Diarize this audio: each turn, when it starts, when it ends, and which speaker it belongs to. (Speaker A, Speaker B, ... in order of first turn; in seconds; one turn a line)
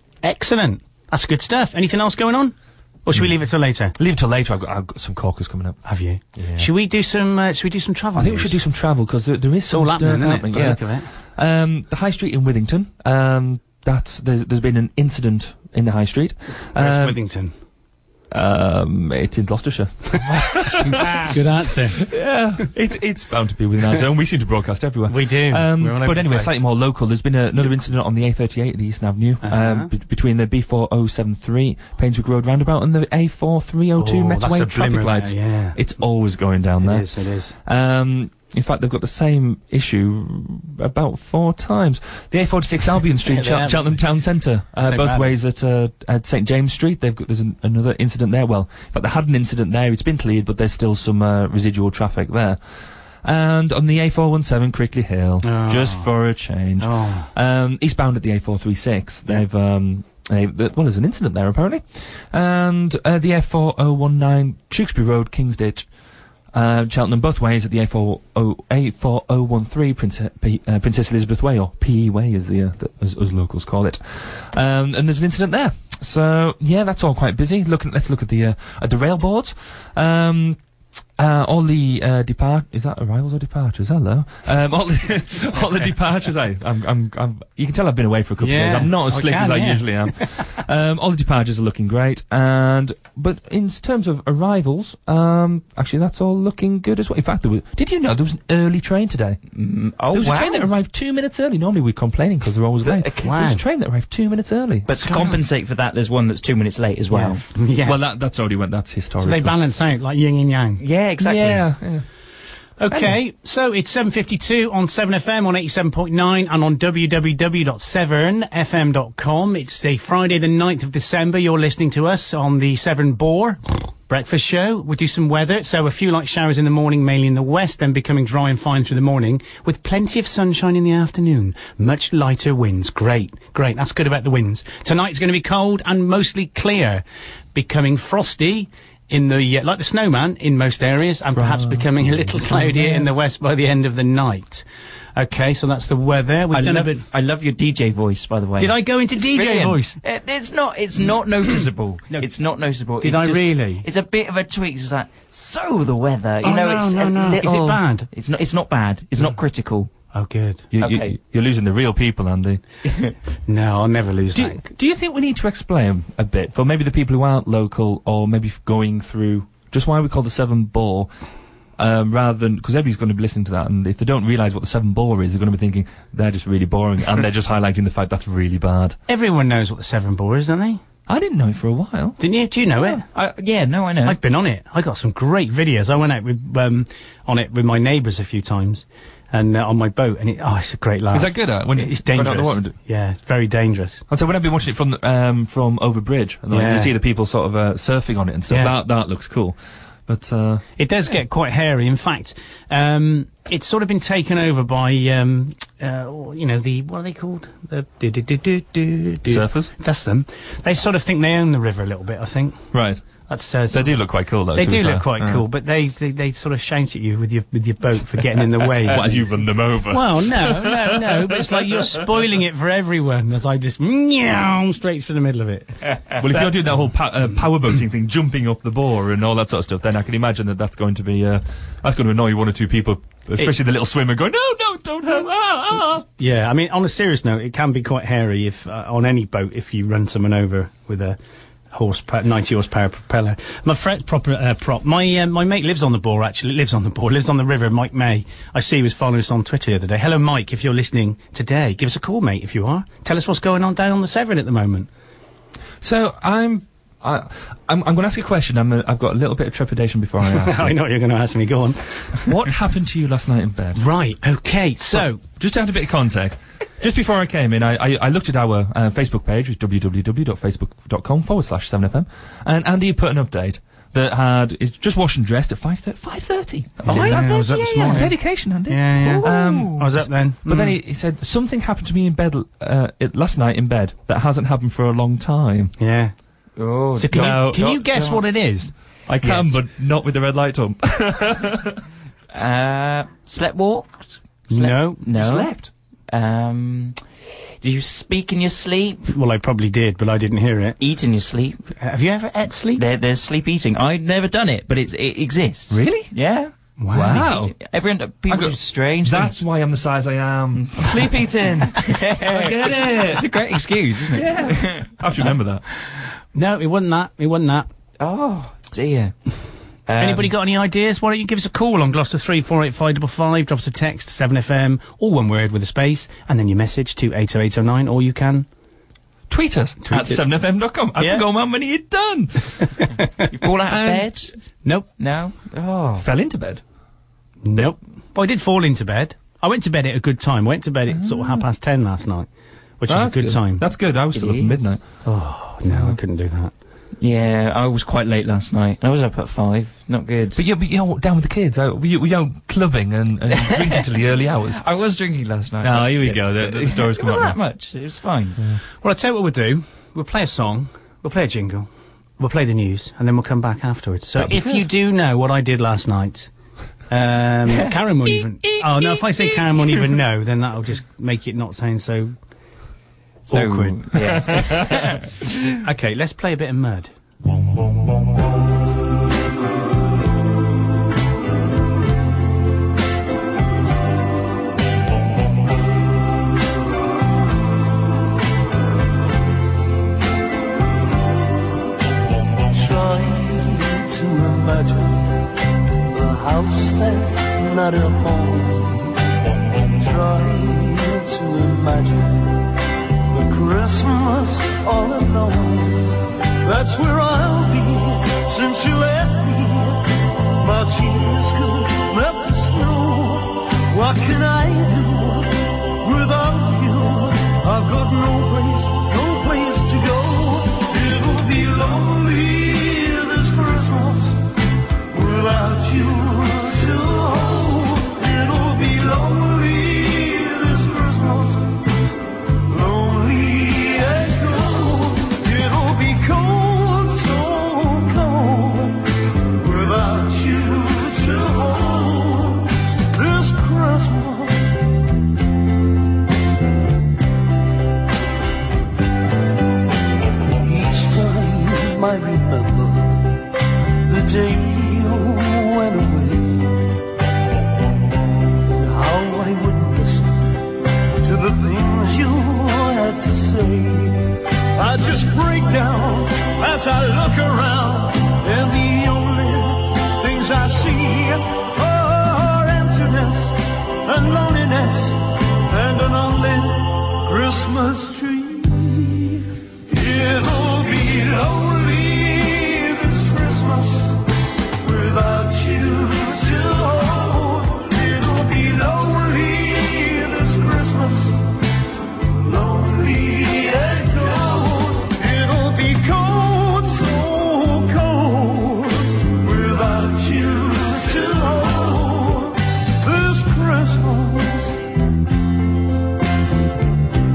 Speaker A: 0.2-2.5
Speaker A: 3.0-3.9
Speaker B: 4.0-5.8
Speaker A: 5.8-8.6
Speaker B: 6.4-6.7
Speaker B: 8.2-17.2
Speaker A: 9.7-11.1
Speaker A: 16.8-17.5
Speaker B: 18.3-21.4
Speaker A: 20.8-22.0
Speaker B: 22.0-37.0
Speaker A: 25.1-26.6
Speaker A: 27.6-27.9
Speaker A: 29.4-29.9
Speaker A: 34.0-35.8
Speaker A: 36.8-37.5
Speaker B: 37.6-52.6
Speaker A: 43.2-44.1
Speaker A: 44.8-45.3
Speaker B: 53.2-65.9
Speaker A: 55.4-56.1
Speaker A: 56.8-57.3
Speaker B: 66.5-80.6
Speaker B: 81.2-99.4
Speaker A: 88.4-90.5
Speaker C: 99.5-100.7
Speaker B: 100.1-104.9
Speaker C: 102.8-103.2
Speaker A: 103.2-103.6
Speaker C: 104.8-107.4
Speaker A: 105.0-105.4
Speaker A: 107.1-108.0
Speaker B: 107.8-109.5
Speaker A: 109.2-110.8
Speaker C: 110.8-111.7
Speaker B: 111.2-112.0
Speaker A: 112.8-137.0
Speaker B: 112.9-113.2
Speaker A: 137.5-144.6
Speaker B: 141.3-143.1
Speaker A: 145.2-147.0
Speaker C: 146.5-159.9
Speaker A: 148.6-150.0
Speaker A: 153.0-153.8
Speaker A: 156.4-158.1
Speaker A: 160.1-160.7
Speaker B: 160.7-162.6
Speaker C: 160.8-161.2
Speaker C: 162.8-163.1
Speaker A: 163.5-164.6
Speaker B: 164.3-171.1
Speaker B: 171.8-179.0
Speaker A: 179.1-180.8
Speaker B: 181.1-182.2
Speaker A: 182.2-183.0
Speaker C: 183.1-184.2
Speaker A: 184.0-194.0
Speaker B: 191.1-192.7
Speaker B: 194.1-200.7
Speaker A: 196.5-196.9
Speaker A: 198.5-198.7
Speaker A: 200.8-212.6
Speaker B: 209.3-209.7
Speaker B: 212.7-213.0
Speaker A: 213.3-214.0
Speaker B: 213.7-215.4
Speaker A: 214.5-226.5
Speaker B: 218.8-221.9
Speaker B: 226.2-236.0
Speaker A: 236.2-241.2
Speaker A: 241.7-254.9
Speaker B: 255.8-260.7
Speaker A: 260.2-262.2
Speaker B: 262.2-263.8
Speaker A: 263.8-265.2
Speaker B: 264.9-285.7
Speaker A: 276.8-280.8
Speaker C: 276.8-278.0
Speaker A: 285.8-286.1
Speaker C: 286.6-288.2
Speaker A: 286.9-288.7
Speaker B: 287.1-287.7
Speaker B: 289.1-291.8
Speaker A: 289.2-289.5
Speaker C: 292.3-295.5
Speaker A: 294.5-295.0
Speaker B: 295.1-295.7
Speaker C: 296.1-297.0
Speaker C: 297.6-299.1
Speaker A: 299.1-300.8
Speaker C: 300.8-301.6
Speaker A: 301.8-302.8
Speaker C: 302.8-309.4
Speaker B: 305.7-306.1
Speaker A: 306.8-307.3
Speaker B: 306.9-307.6
Speaker B: 308.3-313.3
Speaker C: 310.6-314.9
Speaker B: 314.1-315.6
Speaker A: 316.3-317.7
Speaker C: 318.0-319.1
Speaker C: 319.9-320.3
Speaker A: 320.0-328.4
Speaker B: 329.3-332.8
Speaker A: 329.8-330.2
Speaker A: 331.0-331.2
Speaker C: 333.3-334.3
Speaker B: 333.7-334.1
Speaker C: 335.0-336.1
Speaker B: 336.0-336.6
Speaker A: 337.4-342.3
Speaker B: 340.9-341.4
Speaker A: 342.8-343.6
Speaker B: 342.9-344.8
Speaker C: 344.1-344.7
Speaker A: 345.0-346.5
Speaker B: 345.6-346.0
Speaker C: 347.0-350.4
Speaker B: 350.3-354.6
Speaker C: 353.3-353.8
Speaker C: 354.5-358.4
Speaker B: 355.6-357.4
Speaker A: 358.8-361.7
Speaker A: 362.2-366.3
Speaker A: 366.9-372.1
Speaker C: 373.3-375.1
Speaker A: 373.3-373.9
Speaker A: 375.6-376.9
Speaker D: 392.5-395.1
Speaker D: 395.9-398.9
Speaker D: 399.8-402.4
Speaker D: 403.1-409.8
Speaker D: 410.4-424.2
Speaker D: 424.9-431.5
Speaker D: 432.5-438.8
Speaker D: 439.4-444.4
Speaker D: 450.4-453.1
Speaker D: 453.9-456.7
Speaker D: 458.4-460.1
Speaker D: 461.0-464.0
Speaker D: 464.5-484.0
Speaker D: 484.6-491.2
Speaker D: 492.2-504.6